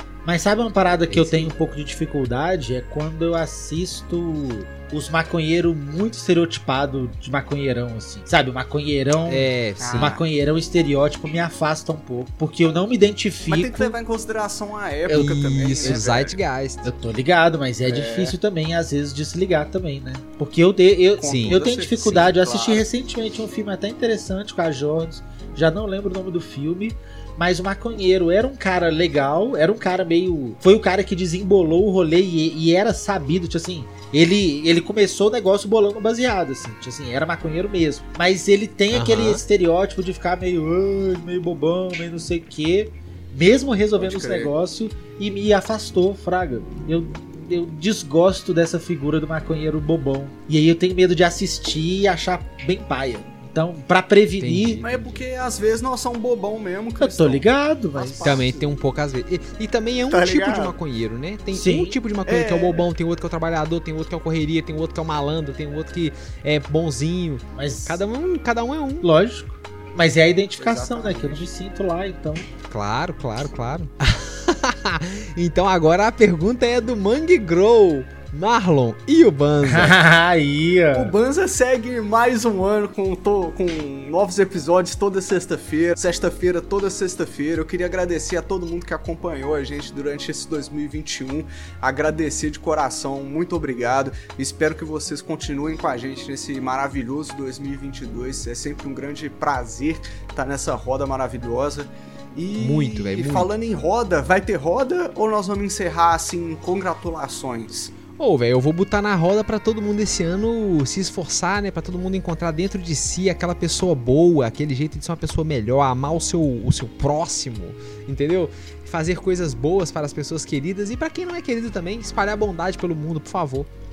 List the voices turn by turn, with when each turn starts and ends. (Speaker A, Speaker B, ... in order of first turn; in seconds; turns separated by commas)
Speaker A: 0.2-14.0, Speaker B: 1.1-1.5, Speaker B: 9.3-10.2, Speaker C: 9.8-10.2, Speaker C: 13.4-16.4, Speaker B: 15.1-16.9, Speaker A: 15.2-16.0, Speaker A: 16.8-54.8, Speaker C: 17.9-18.4, Speaker C: 21.2-22.9, Speaker B: 21.2-22.1, Speaker B: 38.9-39.4, Speaker C: 44.0-44.5, Speaker B: 54.4-55.2, Speaker C: 54.8-58.7, Speaker A: 57.0-58.4, Speaker B: 58.2-69.1, Speaker C: 60.1-60.8, Speaker A: 61.5-62.0, Speaker C: 62.3-62.9, Speaker A: 67.6-68.0, Speaker A: 69.0-72.4, Speaker C: 70.6-71.5, Speaker B: 72.7-80.0, Speaker A: 79.6-81.1, Speaker C: 80.9-107.9, Speaker B: 102.6-103.5, Speaker B: 108.2-123.7